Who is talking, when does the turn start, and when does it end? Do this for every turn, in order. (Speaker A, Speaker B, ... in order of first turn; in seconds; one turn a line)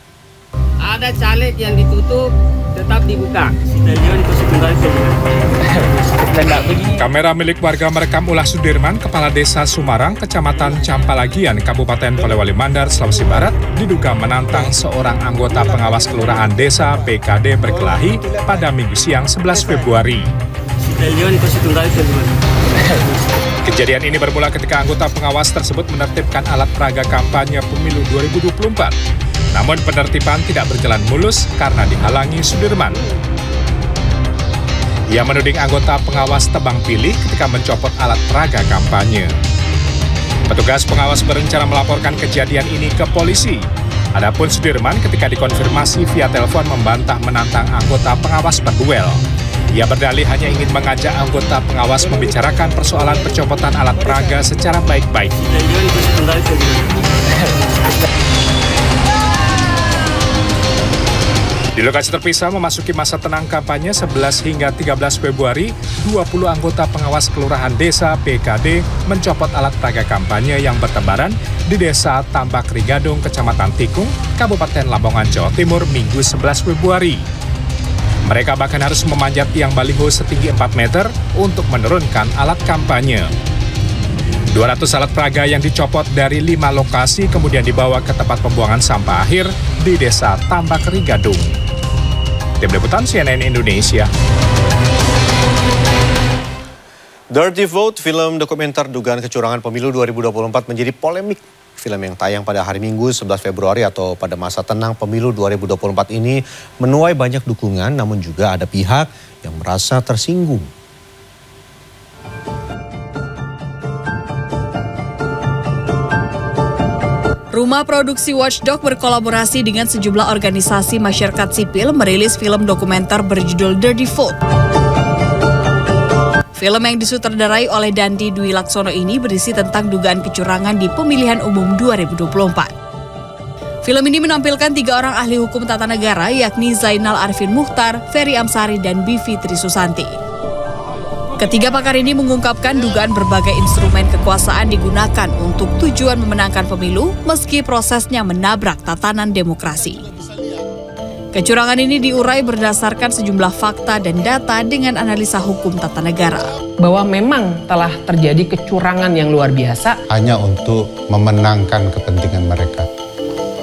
Speaker A: 0.8-5.2
Speaker A: 6.3-6.9
Speaker B: 6.9-20.3
Speaker A: 21.1-22.3
Speaker B: 23.6-28.9
Speaker B: 29.5-33.0
Speaker B: 35.1-39.3
Speaker B: 40.5-43.6
Speaker B: 44.1-49.2
Speaker B: 49.7-55.3
Speaker A: 55.5-56.9
Speaker B: 61.8-77.2
Speaker B: 78.3-83.2
Speaker B: 84.5-91.5
Speaker B: 92.6-94.1
Speaker C: 97.3-110.7
Speaker D: 117.5-124.4
Speaker D: 126.5-132.7
Speaker D: 133.8-140.1
Speaker D: 141.4-150.0
Speaker D: 151.3-156.5
Speaker E: 156.8-160.0
Speaker F: 160.1-162.9